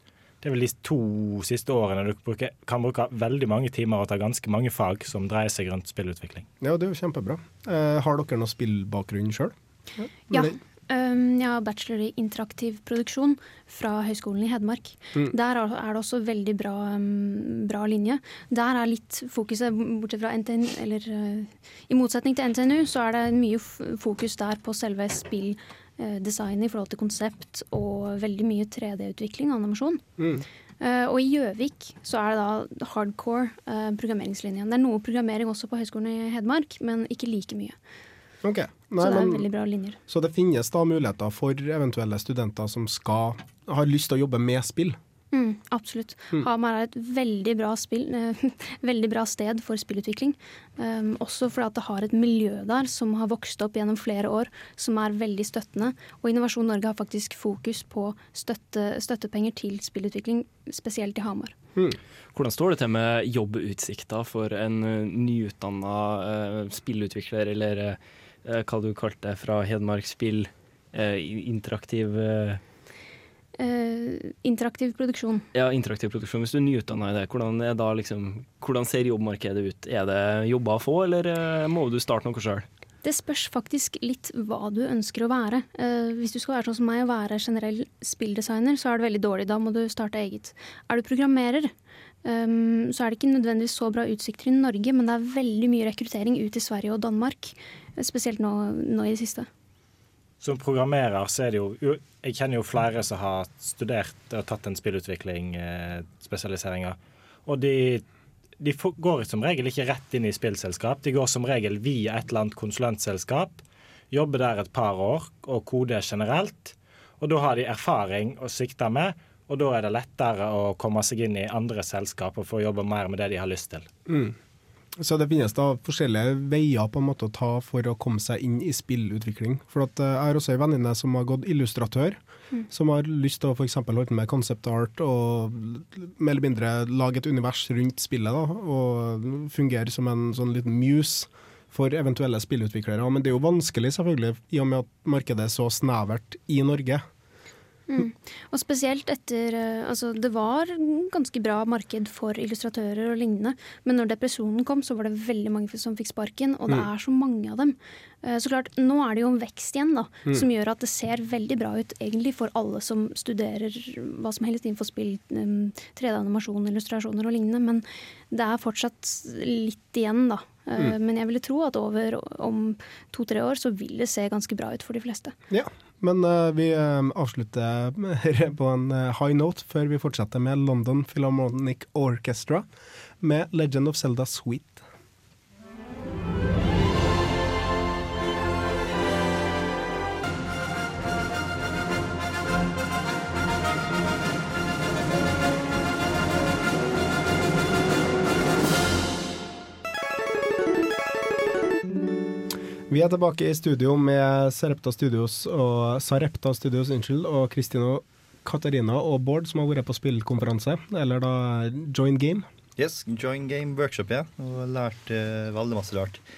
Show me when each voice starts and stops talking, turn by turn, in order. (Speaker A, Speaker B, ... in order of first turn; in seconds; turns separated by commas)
Speaker A: 0.4-6.5, Speaker B: 6.6-10.6, Speaker C: 10.3-30.0, Speaker B: 30.2-30.4, Speaker C: 30.8-37.8, Speaker B: 38.4-39.4, Speaker C: 39.0-40.0, Speaker B: 40.1-45.0, Speaker C: 45.3-61.5, Speaker D: 62.3-72.6, Speaker C: 73.6-75.5, Speaker D: 75.5-82.7, Speaker C: 83.0-91.7, Speaker C: 92.2-99.5, Speaker A: 100.4-108.0, Speaker A: 108.6-123.8, Speaker B: 124.1-124.3, Speaker B: 125.0-132.2, Speaker B: 132.7-147.0, Speaker C: 147.9-175.3, Speaker B: 175.5-182.7, Speaker B: 183.2-184.8, Speaker B: 202.9-212.4, Speaker E: 212.8-216.2